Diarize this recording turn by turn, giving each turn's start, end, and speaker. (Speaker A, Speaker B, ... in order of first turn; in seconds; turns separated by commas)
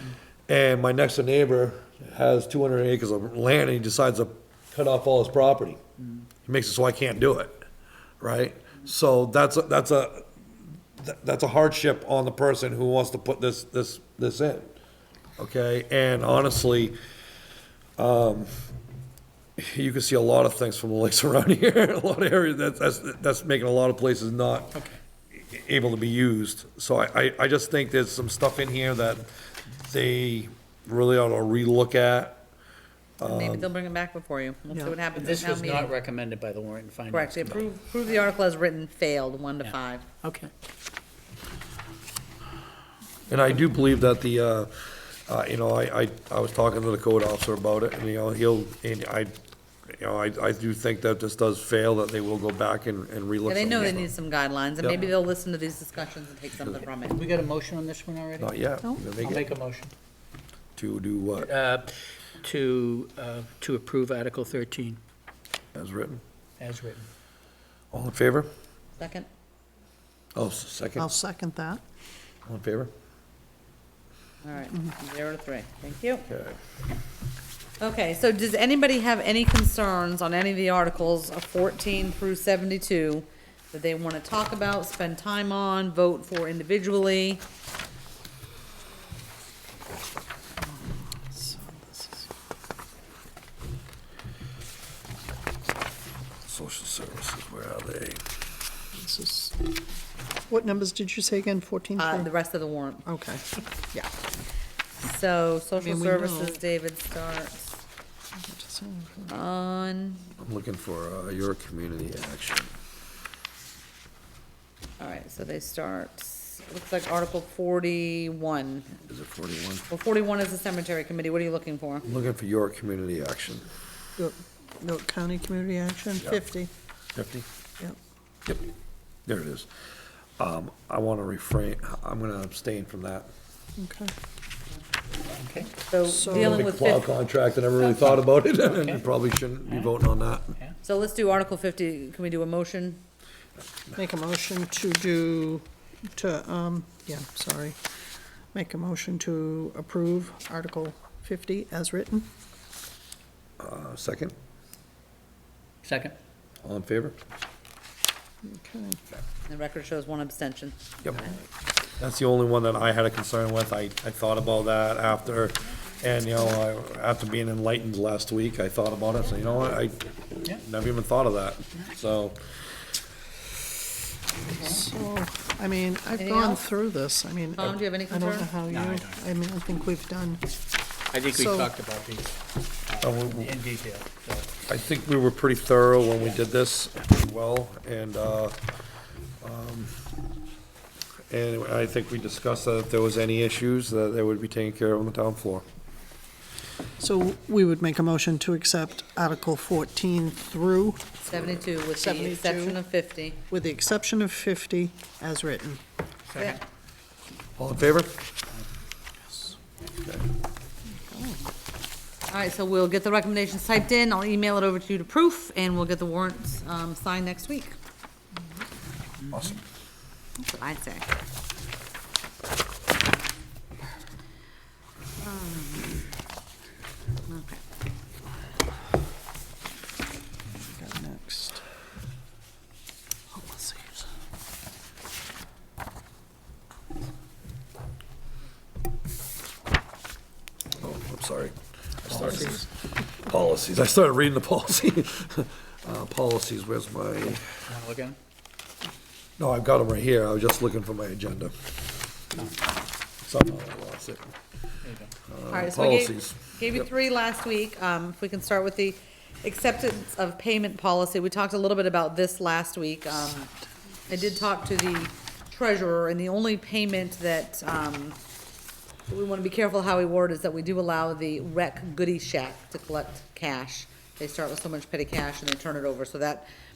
Speaker A: 0.5-5.8, Speaker A: 6.5-7.6, Speaker A: 8.2-10.3, Speaker A: 11.0-14.7, Speaker A: 15.4-16.9, Speaker A: 18.0-18.5, Speaker A: 19.6-32.4, Speaker A: 33.2-33.7, Speaker B: 33.2-35.9, Speaker C: 35.1-37.6, Speaker B: 37.1-40.1, Speaker C: 40.2-40.5, Speaker A: 43.3-44.7, Speaker A: 45.3-49.3, Speaker A: 49.9-54.1, Speaker B: 53.5-57.2, Speaker A: 54.8-55.1, Speaker C: 57.0-58.5, Speaker A: 58.4-59.5, Speaker C: 59.2-59.9, Speaker A: 60.8-61.5, Speaker C: 61.4-65.0, Speaker A: 65.7-66.2, Speaker C: 66.6-67.1, Speaker A: 67.9-68.5, Speaker B: 69.0-69.3, Speaker A: 70.3-71.1, Speaker D: 71.0-71.8, Speaker A: 72.5-72.9, Speaker B: 74.4-76.2, Speaker A: 76.3-76.6, Speaker B: 77.8-87.4, Speaker D: 90.8-92.3, Speaker A: 96.5-98.2, Speaker D: 98.9-99.7, Speaker D: 100.5-102.3, Speaker B: 102.0-103.0, Speaker D: 103.0-104.1, Speaker B: 105.0-107.8, Speaker D: 105.8-106.6, Speaker D: 108.4-109.3, Speaker B: 109.3-110.2, Speaker A: 110.4-112.7, Speaker B: 115.0-118.9, Speaker A: 119.0-119.9, Speaker B: 119.9-122.0, Speaker A: 122.0-123.7, Speaker D: 124.2-126.7, Speaker A: 127.1-127.5, Speaker A: 129.3-129.7, Speaker A: 130.4-133.3, Speaker D: 133.8-134.1, Speaker C: 135.3-135.8, Speaker B: 135.9-137.1, Speaker D: 136.1-136.7, Speaker A: 136.3-140.6, Speaker C: 137.8-139.0, Speaker B: 140.8-143.0, Speaker D: 143.9-147.8, Speaker D: 148.5-152.3, Speaker A: 153.6-154.3, Speaker C: 155.8-156.1, Speaker A: 156.6-157.2, Speaker D: 158.4-159.0, Speaker B: 159.4-161.3, Speaker A: 162.0-172.4, Speaker D: 174.6-180.5, Speaker B: 176.2-176.6, Speaker B: 177.6-178.5, Speaker C: 178.6-179.2, Speaker C: 181.1-182.3, Speaker D: 181.3-181.7, Speaker C: 182.9-184.6, Speaker A: 183.0-183.6, Speaker A: 184.7-188.6, Speaker A: 189.4-190.0, Speaker A: 191.3-195.6, Speaker D: 197.0-201.2, Speaker B: 201.3-203.4, Speaker D: 201.9-202.8, Speaker D: 203.5-205.8, Speaker C: 206.3-206.6, Speaker A: 207.6-208.2, Speaker D: 210.9-211.4, Speaker B: 212.3-217.8, Speaker A: 219.3-219.6, Speaker B: 220.4-221.1, Speaker B: 225.2-226.1, Speaker B: 227.3-227.6, Speaker D: 230.6-231.6, Speaker D: 233.3-234.0, Speaker A: 240.8-247.4, Speaker C: 242.1-242.4, Speaker C: 247.7-248.2, Speaker A: 249.4-251.7, Speaker A: 253.2-254.3, Speaker C: 254.8-255.1, Speaker A: 255.3-256.5, Speaker B: 255.5-263.5, Speaker B: 264.1-268.2, Speaker B: 269.1-276.4